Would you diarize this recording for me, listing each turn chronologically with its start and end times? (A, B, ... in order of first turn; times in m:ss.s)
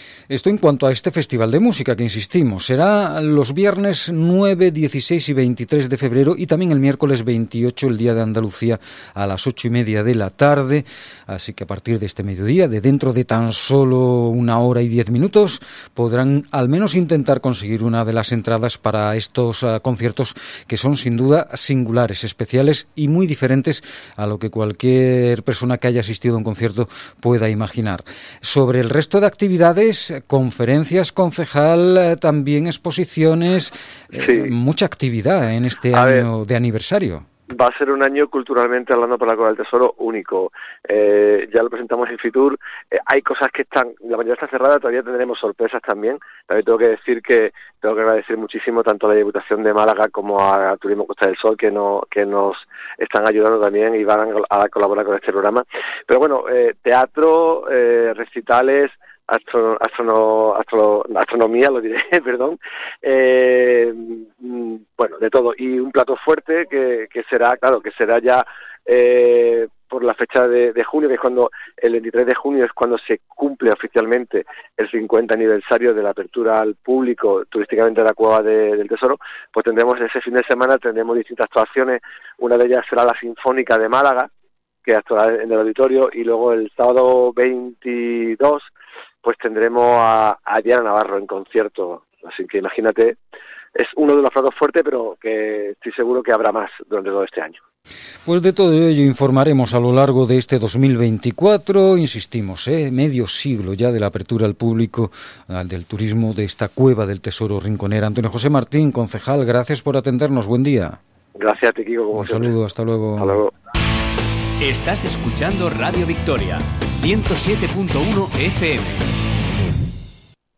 0:00.3-0:37.2 A
0:34.2-0:34.5 B
0:35.9-0:36.2 B
0:37.5-1:24.3 B
1:24.8-1:28.7 B
1:29.2-1:33.2 B
1:33.8-1:37.6 B
1:38.2-1:51.0 A
1:51.4-1:52.5 B
1:52.1-1:53.4 A
1:53.2-1:53.5 B
1:54.6-1:59.0 C